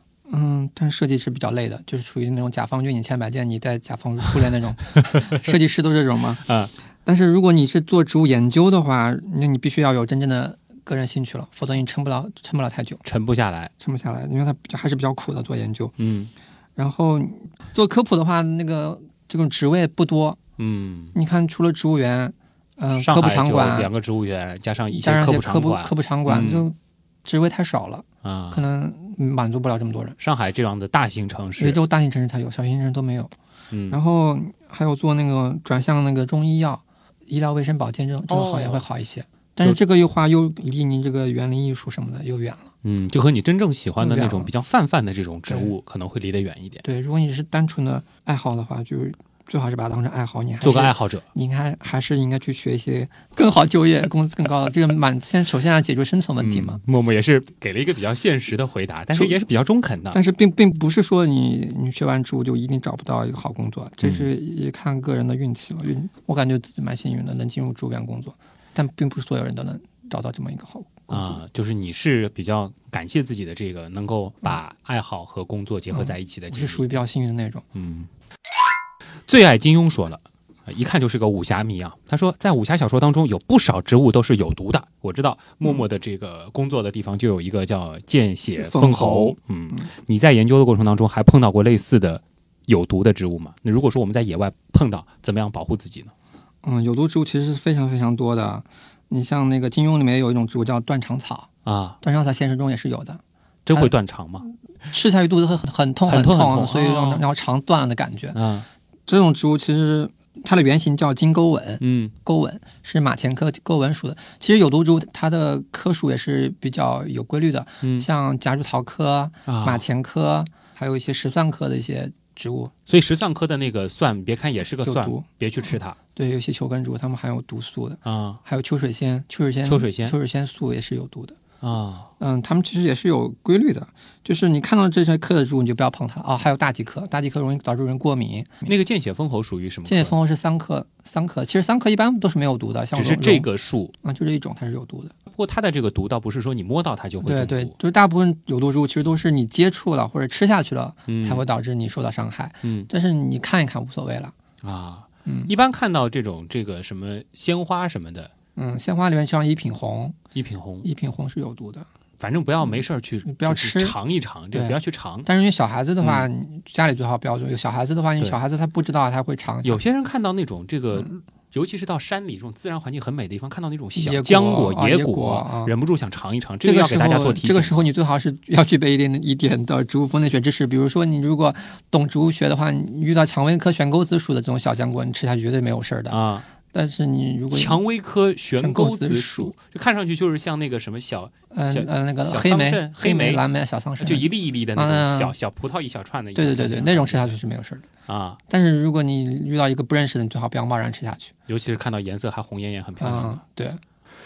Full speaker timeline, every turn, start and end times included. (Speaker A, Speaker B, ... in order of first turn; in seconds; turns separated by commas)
Speaker A: 0.3-6.5, Speaker B: 6.4-6.7, Speaker A: 7.0-13.0, Speaker B: 13.0-13.7, Speaker A: 13.8-15.9, Speaker B: 16.0-16.3, Speaker A: 16.8-20.4, Speaker B: 20.6-21.1, Speaker A: 21.1-23.9, Speaker B: 23.0-26.7, Speaker A: 24.9-30.2, Speaker B: 28.2-28.6, Speaker B: 30.2-31.8, Speaker A: 31.6-33.3, Speaker B: 33.7-34.0, Speaker A: 33.9-42.7, Speaker B: 38.3-38.8, Speaker B: 42.8-46.8, Speaker A: 44.0-44.5, Speaker A: 45.5-45.7, Speaker A: 46.8-56.8, Speaker B: 50.6-51.3, Speaker B: 56.4-60.2, Speaker A: 59.1-59.4, Speaker A: 60.1-71.4, Speaker B: 71.1-77.0, Speaker A: 75.9-77.7, Speaker B: 77.7-78.1, Speaker B: 79.3-96.1, Speaker A: 88.5-89.9, Speaker A: 96.6-101.5, Speaker B: 101.7-102.0, Speaker A: 102.0-103.9, Speaker B: 103.7-104.5, Speaker A: 104.9-108.4, Speaker B: 106.0-107.3, Speaker B: 108.3-108.7, Speaker A: 109.1-122.7, Speaker B: 111.8-112.1, Speaker B: 117.8-118.1, Speaker B: 119.5-119.9, Speaker B: 122.9-126.0, Speaker A: 124.8-125.3, Speaker A: 126.2-131.4, Speaker B: 128.1-128.4, Speaker B: 129.7-130.2, Speaker B: 131.6-132.1, Speaker A: 132.2-138.7, Speaker B: 138.7-140.2, Speaker A: 139.9-143.5, Speaker B: 142.9-143.9, Speaker A: 144.0-145.2, Speaker B: 145.3-147.7, Speaker A: 147.2-154.3, Speaker B: 151.1-151.4, Speaker B: 152.6-152.9, Speaker B: 154.6-158.3, Speaker A: 155.3-155.5, Speaker A: 158.6-160.2, Speaker B: 160.3-160.9, Speaker A: 160.8-161.9, Speaker B: 162.2-165.3, Speaker A: 163.2-164.0, Speaker A: 164.5-169.8, Speaker B: 166.0-166.3, Speaker B: 169.6-177.9, Speaker A: 174.0-175.7, Speaker A: 176.6-187.8, Speaker B: 186.1-186.5, Speaker B: 187.5-193.4, Speaker A: 188.6-189.6, Speaker A: 191.5-195.3, Speaker B: 194.0-197.3, Speaker A: 196.3-197.9, Speaker B: 198.1-198.4, Speaker A: 198.5-201.3, Speaker B: 201.5-203.4, Speaker A: 203.0-203.8